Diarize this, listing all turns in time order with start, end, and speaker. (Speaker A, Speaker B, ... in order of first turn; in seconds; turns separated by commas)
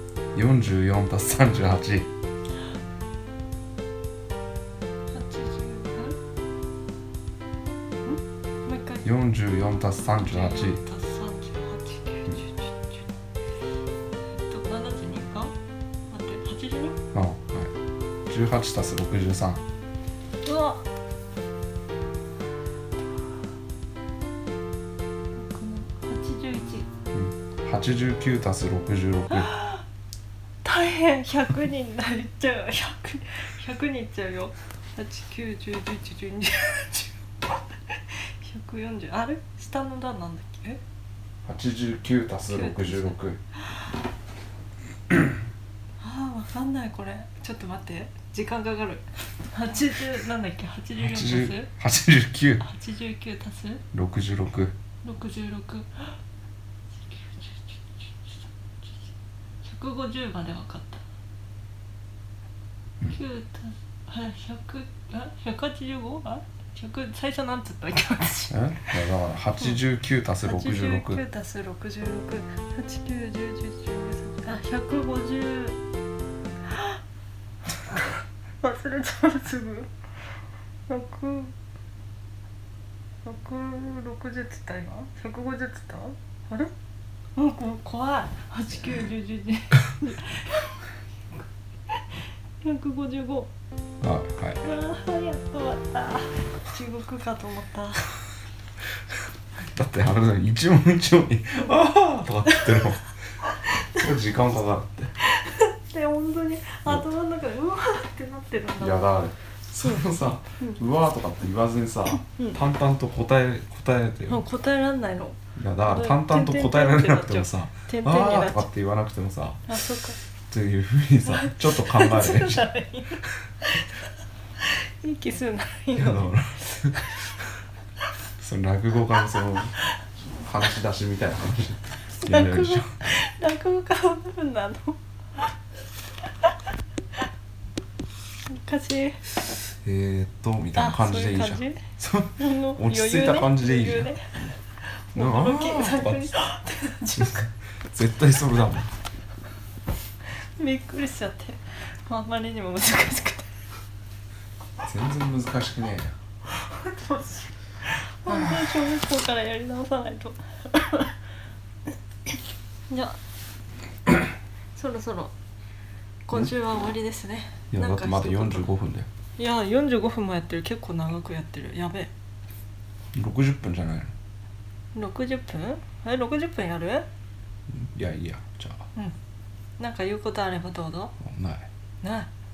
Speaker A: 0.3-2.1, Speaker B: 5.1-6.2, Speaker B: 8.1-9.1, Speaker A: 9.0-10.8, Speaker B: 10.2-13.0, Speaker B: 14.4-15.6, Speaker B: 16.1-17.0, Speaker A: 17.1-17.7, Speaker A: 18.3-19.6, Speaker B: 20.4-20.8, Speaker B: 25.4-26.9, Speaker A: 27.1-29.5, Speaker B: 29.3-29.8, Speaker B: 30.6-40.8, Speaker A: 41.5-43.4, Speaker B: 42.5-43.8, Speaker B: 46.0-51.7, Speaker A: 51.0-52.6, Speaker B: 52.6-53.8, Speaker A: 53.9-54.7, Speaker B: 55.0-56.2, Speaker B: 57.0-58.9, Speaker B: 59.6-61.0, Speaker B: 63.0-69.0, Speaker A: 68.5-71.2, Speaker B: 70.4-75.8, Speaker B: 77.9-79.9, Speaker B: 80.9-81.5, Speaker B: 83.2-86.7, Speaker B: 87.4-90.8, Speaker B: 92.0-93.5, Speaker A: 94.0-94.6, Speaker B: 94.6-98.1, Speaker A: 99.7-103.1, Speaker B: 102.5-102.8, Speaker A: 103.9-105.1, Speaker B: 105.3-109.1, Speaker A: 108.8-114.5, Speaker B: 109.8-110.1, Speaker B: 112.2-112.6, Speaker B: 114.3-118.7, Speaker A: 115.5-119.7, Speaker B: 119.7-120.2, Speaker A: 120.5-122.7, Speaker B: 121.2-124.0, Speaker B: 124.6-127.1, Speaker A: 126.0-127.1, Speaker A: 128.4-129.8, Speaker A: 130.4-132.9, Speaker B: 132.2-135.4, Speaker B: 138.5-139.5, Speaker A: 139.8-144.1, Speaker B: 140.8-141.8, Speaker B: 142.4-147.5, Speaker A: 145.1-146.3, Speaker A: 147.2-148.9, Speaker B: 150.6-153.5, Speaker A: 154.8-156.2, Speaker B: 156.6-161.1, Speaker B: 162.9-163.2, Speaker B: 164.8-165.3, Speaker B: 166.3-168.7, Speaker A: 167.7-169.1, Speaker B: 169.4-172.1, Speaker A: 173.1-174.1, Speaker B: 174.9-177.1, Speaker A: 177.7-178.9, Speaker B: 179.8-181.2, Speaker A: 181.2-181.7, Speaker B: 182.0-182.3